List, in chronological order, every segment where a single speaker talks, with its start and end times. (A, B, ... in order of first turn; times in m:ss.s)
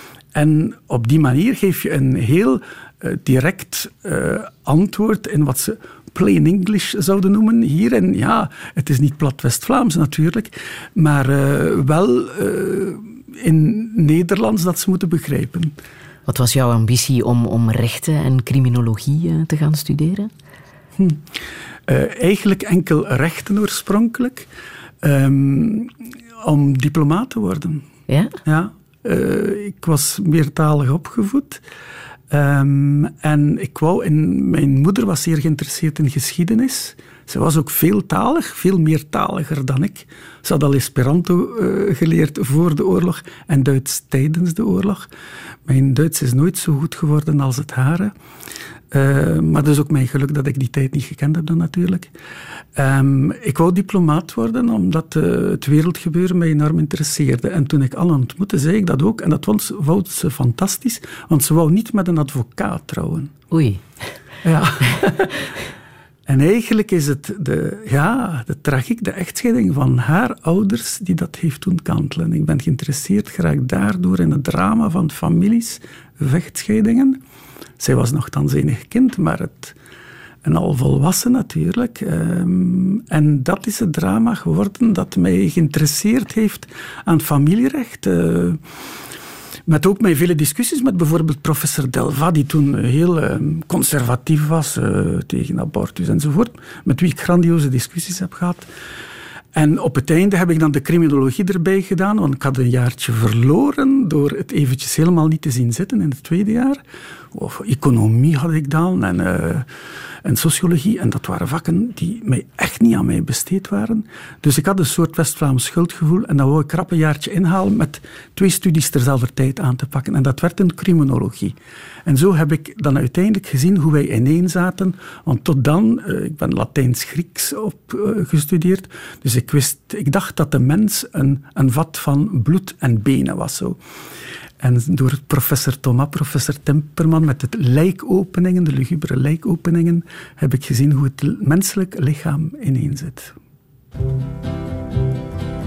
0:00.3-0:15.8 A
0:16.3-0:20.3 B
0:21.0-0:24.5 A
0:25.0-0:27.9 A
0:28.1-0:28.4 B
0:28.4-0:31.6 A
0:32.3-0:45.1 A
0:45.6-0:48.1 A
0:48.9-0:52.1 A
0:52.7-1:03.3 A
1:03.5-1:03.8 B
1:04.4-1:05.5 A
1:06.2-1:17.2 A
1:17.8-1:19.8 A
1:20.4-1:28.6 A
1:29.7-1:38.7 A
1:39.5-1:49.7 A
1:50.2-2:13.8 A
2:14.6-2:23.3 A